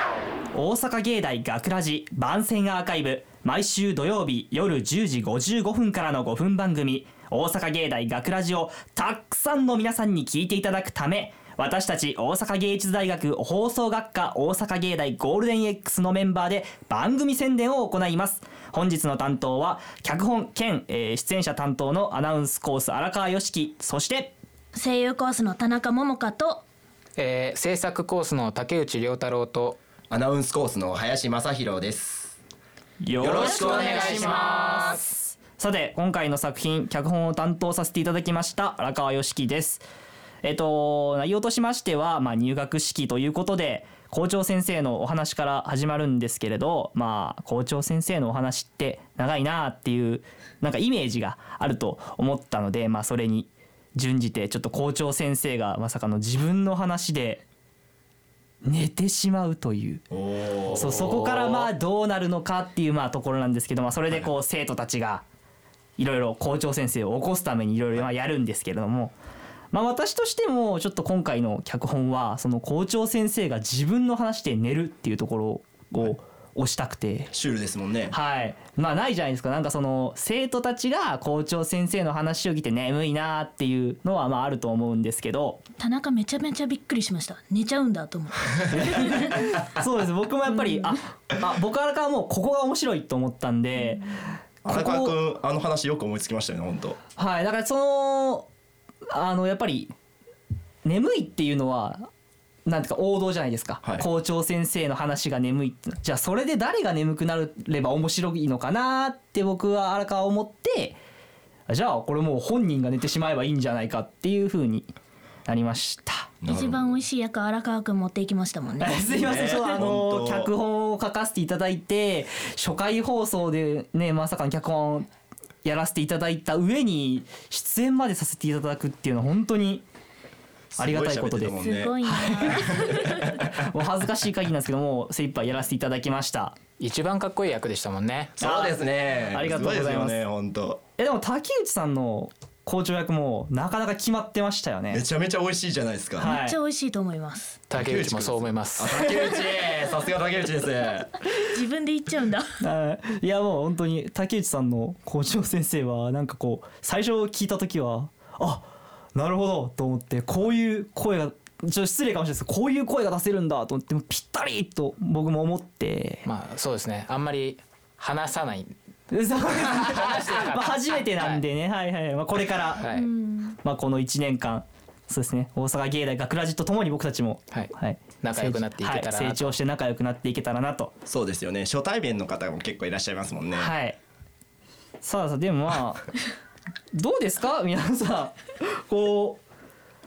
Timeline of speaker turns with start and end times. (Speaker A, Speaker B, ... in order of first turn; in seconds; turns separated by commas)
Speaker A: 0.5-24.3, Speaker B: 24.7-26.6, Speaker C: 27.2-29.8, Speaker D: 30.1-32.4, Speaker A: 33.0-39.8, Speaker D: 33.2-34.3, Speaker C: 33.4-35.1, Speaker A: 40.4-57.4, Speaker A: 58.6-60.0, Speaker D: 60.1-61.7, Speaker A: 60.7-65.2, Speaker A: 66.0-69.2, Speaker A: 69.7-77.3, Speaker D: 77.3-78.1, Speaker A: 78.1-85.6, Speaker B: 85.8-89.4, Speaker A: 88.7-95.1, Speaker D: 94.7-97.0, Speaker A: 97.2-98.5, Speaker A: 99.1-99.9, Speaker A: 100.8-102.1, Speaker A: 102.7-111.0, Speaker A: 111.7-114.9, Speaker A: 115.5-116.3, Speaker D: 116.4-116.8, Speaker B: 116.5-119.4, Speaker A: 118.8-125.1, Speaker D: 119.1-120.5, Speaker A: 125.6-129.8, Speaker D: 130.8-133.5, Speaker A: 130.8-131.5, Speaker B: 131.6-133.3, Speaker A: 132.2-132.7, Speaker A: 133.3-136.6, Speaker C: 136.8-138.3, Speaker D: 138.4-140.8, Speaker A: 138.4-140.2, Speaker A: 141.0-145.0, Speaker D: 144.9-146.3, Speaker A: 146.2-146.6, Speaker B: 146.2-147.6, Speaker C: 147.7-149.1, Speaker D: 147.7-151.2, Speaker B: 151.5-152.5, Speaker A: 152.6-166.3, Speaker C: 166.2-168.8, Speaker A: 169.1-172.9, Speaker C: 169.6-171.4, Speaker C: 172.8-173.1, Speaker B: 172.9-173.6, Speaker A: 173.6-180.9, Speaker C: 177.5-179.6, Speaker D: 181.1-183.7, Speaker A: 183.6-184.0, Speaker A: 185.0-186.1, Speaker A: 186.9-189.4